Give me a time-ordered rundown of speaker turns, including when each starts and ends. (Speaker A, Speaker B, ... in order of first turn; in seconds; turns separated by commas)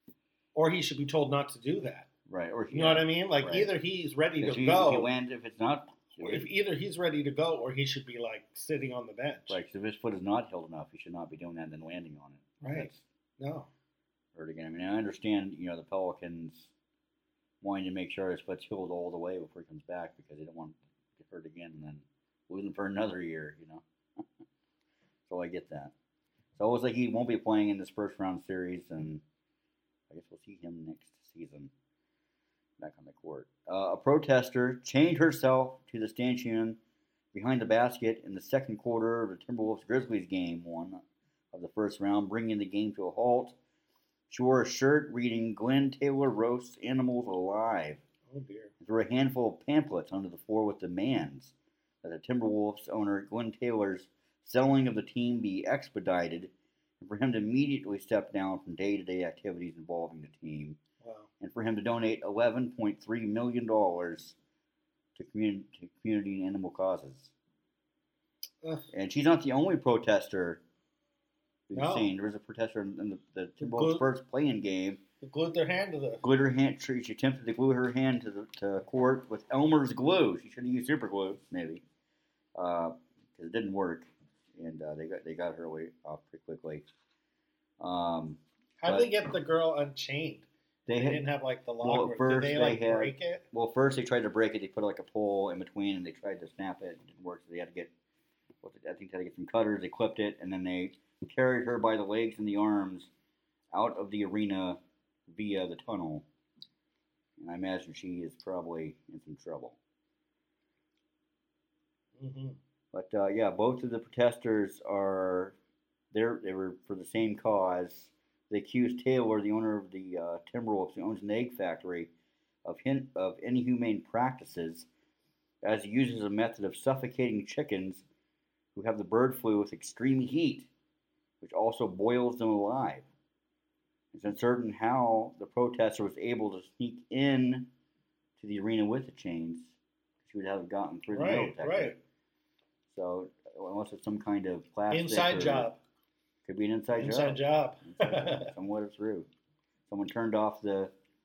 Speaker A: 0.5-2.1, Speaker B: 2.3-3.7, Speaker A: 2.7-5.1, Speaker B: 4.4-6.5, Speaker A: 6.2-9.6, Speaker B: 9.5-13.0, Speaker A: 12.6-13.7, Speaker B: 14.3-16.7, Speaker B: 17.6-24.2, Speaker B: 25.3-25.9, Speaker B: 26.6-29.2, Speaker B: 30.1-31.7, Speaker B: 32.8-36.8, Speaker B: 37.3-43.5, Speaker B: 44.3-48.0, Speaker A: 48.3-48.7, Speaker B: 48.8-60.8, Speaker A: 61.0-61.3, Speaker B: 61.4-64.3, Speaker B: 65.2-67.3, Speaker B: 68.9-70.6, Speaker B: 71.7-75.0, Speaker A: 71.7-72.1, Speaker A: 73.6-74.0, Speaker A: 75.2-76.2, Speaker B: 76.2-81.8, Speaker B: 82.5-86.8, Speaker B: 87.8-89.1, Speaker A: 88.8-93.4, Speaker B: 90.9-91.2, Speaker B: 91.8-97.9, Speaker B: 98.6-103.1, Speaker B: 103.7-106.2, Speaker B: 107.4-109.8, Speaker A: 112.2-112.6, Speaker B: 112.9-115.6, Speaker B: 116.1-122.1, Speaker B: 122.6-124.9, Speaker B: 125.6-128.0, Speaker B: 128.7-130.7, Speaker B: 131.4-133.1, Speaker B: 134.1-137.7, Speaker B: 138.4-141.9, Speaker A: 141.1-142.0, Speaker B: 142.9-145.7, Speaker A: 144.9-145.8, Speaker B: 146.4-149.3, Speaker A: 146.9-148.5, Speaker B: 149.9-150.9